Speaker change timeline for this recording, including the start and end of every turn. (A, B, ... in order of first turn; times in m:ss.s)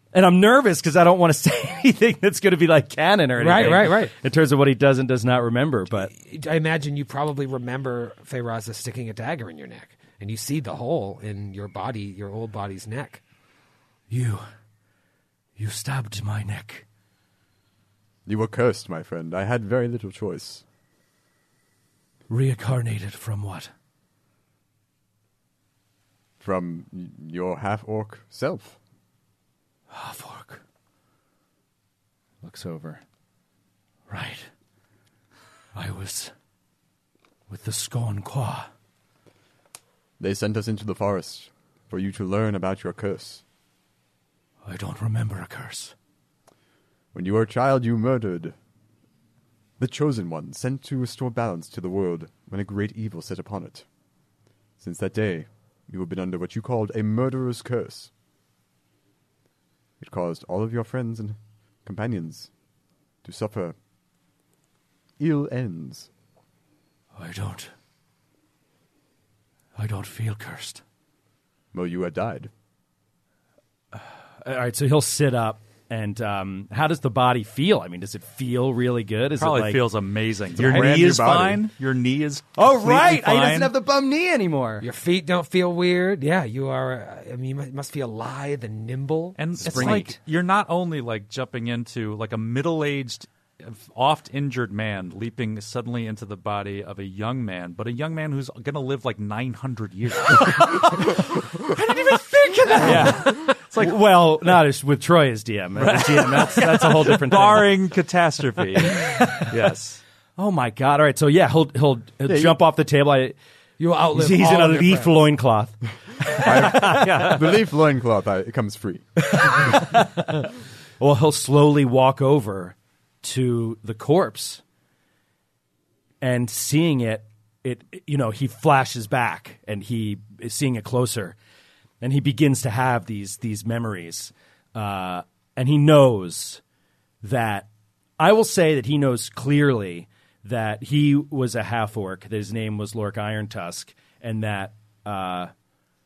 0:00.1-0:06.1 A
0:03.4-0:04.1 B
0:06.1-0:13.2 B
0:14.1-0:14.4 A
0:15.6-0:16.8 A
0:18.2-0:20.6 C
0:22.3-0:23.7 A
0:26.4-0:28.8 C
0:29.9-0:30.6 A
0:32.4-0:33.0 A
0:34.1-0:34.5 A
0:35.7-0:36.3 A
0:37.5-0:38.7 A
0:40.2-0:43.4 C
0:44.6-0:45.9 A
0:47.1-0:48.5 C
0:49.8-0:53.8 C
0:54.8-0:58.1 C
1:00.0-1:02.5 C
1:03.2-1:03.8 C
1:05.2-1:06.1 C
1:07.2-1:07.7 A
1:09.8-1:10.8 A
1:11.7-1:12.5 C
1:14.4-1:19.8 A
1:19.4-1:23.7 D
1:20.6-1:21.6 C
1:20.6-1:20.8 B
1:22.6-1:24.8 A
1:24.8-1:30.0 B
1:29.4-1:40.9 D
1:29.6-1:30.2 A
1:40.4-1:47.8 A
1:42.8-1:43.9 D
1:45.9-1:50.0 D
1:48.8-1:49.5 A
1:50.4-1:53.4 A
1:52.2-1:52.6 C
1:53.8-1:55.1 B
1:54.1-1:57.5 A
1:56.4-1:59.2 C
1:59.2-2:00.5 A
2:01.0-2:04.6 A
2:06.2-2:11.4 A
2:12.0-2:16.6 A
2:17.2-2:17.7 A
2:18.2-2:25.5 A